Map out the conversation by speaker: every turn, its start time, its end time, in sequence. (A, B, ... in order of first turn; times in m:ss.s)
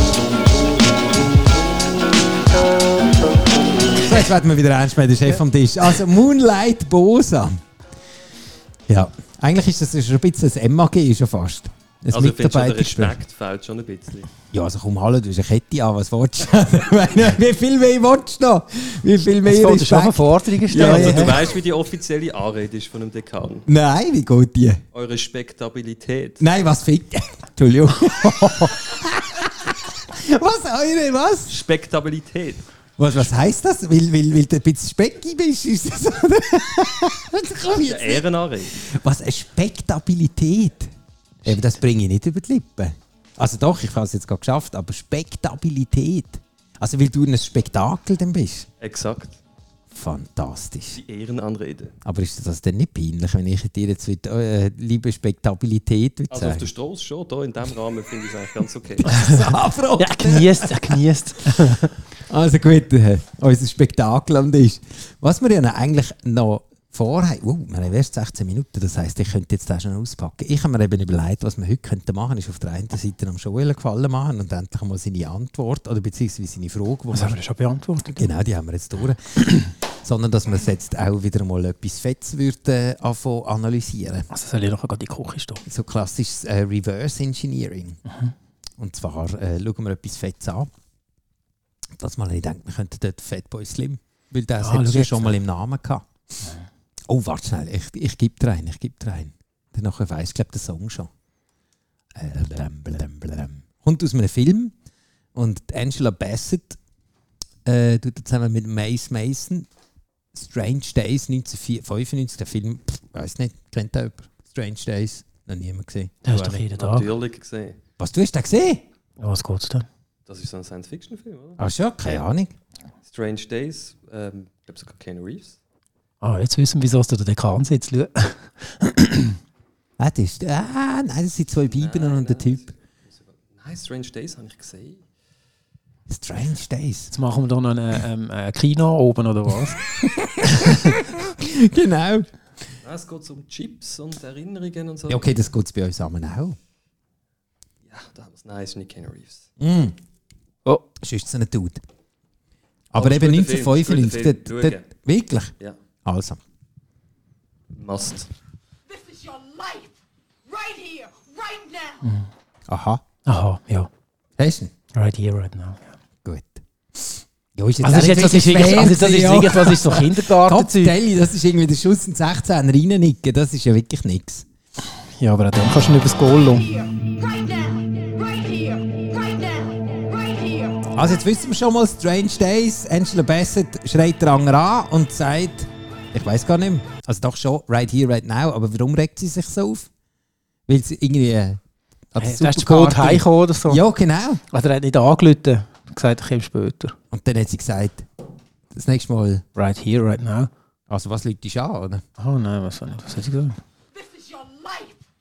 0:03.9-0:07.6 A
0:08.9-0:13.2 A
0:12.1-0:14.3 B
0:14.5-0:21.5 A
0:19.4-0:21.4 C
0:20.7-0:23.6 B
0:23.7-0:24.8 A
0:24.9-0:26.4 B
0:26.4-0:31.5 A
0:31.5-0:32.6 B
0:33.0-0:38.2 A
0:37.6-0:38.8 B
0:38.8-0:40.9 A
0:41.4-0:48.7 A
0:48.8-0:49.4 B
0:49.9-0:51.0 A
0:51.0-0:51.9 B
0:52.0-0:56.7 A
0:56.3-0:59.2 B
0:59.0-1:01.0 A
0:59.1-1:01.9 C
1:02.3-1:17.4 A
1:17.1-1:18.3 C
1:18.1-1:24.3 A
1:24.3-1:25.6 C
1:25.6-1:28.0 A
1:28.1-1:28.3 C
1:28.8-1:30.7 A
1:32.0-1:36.1 A
1:34.6-1:35.4 C
1:37.1-1:41.1 A
1:42.1-1:44.7 A
1:45.3-1:46.8 A
1:47.6-1:49.7 A
1:50.3-1:56.6 A
1:56.2-1:57.1 C
1:56.7-1:57.8 B
1:58.0-1:58.8 A
1:59.2-1:59.9 C
2:00.3-2:02.2 B
2:01.6-2:02.5 A
2:03.0-2:05.6 B
2:06.2-2:09.4 C
2:10.0-2:12.6 A
2:11.7-2:15.0 B
2:16.1-2:17.1 A
2:17.1-2:19.8 C
2:20.0-2:22.3 A
2:20.5-2:20.9 C
2:22.8-2:25.4 B
2:25.1-2:26.6 A
2:27.9-2:29.5 B
2:29.6-2:30.0 A
2:31.0-2:31.8 A
2:32.9-2:35.5 A
2:32.9-2:34.8 B
2:36.0-2:36.4 A
2:37.7-2:38.3 B
2:38.9-2:39.9 D
2:40.5-2:42.0 D
2:42.7-2:43.0 A
2:43.2-2:43.9 C
2:44.4-2:44.7 A
2:44.9-2:45.9 C
2:46.2-2:54.4 A
2:47.8-2:51.0 C
2:55.2-2:56.7 C
2:56.5-2:58.8 D
2:59.4-2:59.7 D
3:00.3-3:00.8 D
3:00.9-3:09.9 A
3:10.7-3:11.6 A
3:12.1-3:14.4 A
3:12.2-3:13.8 C
3:14.5-3:16.9 C
3:17.1-3:18.0 A
3:18.7-3:19.4 A
3:19.6-3:20.5 C
3:20.9-3:22.0 A
3:22.2-3:23.6 C
3:23.9-3:25.0 D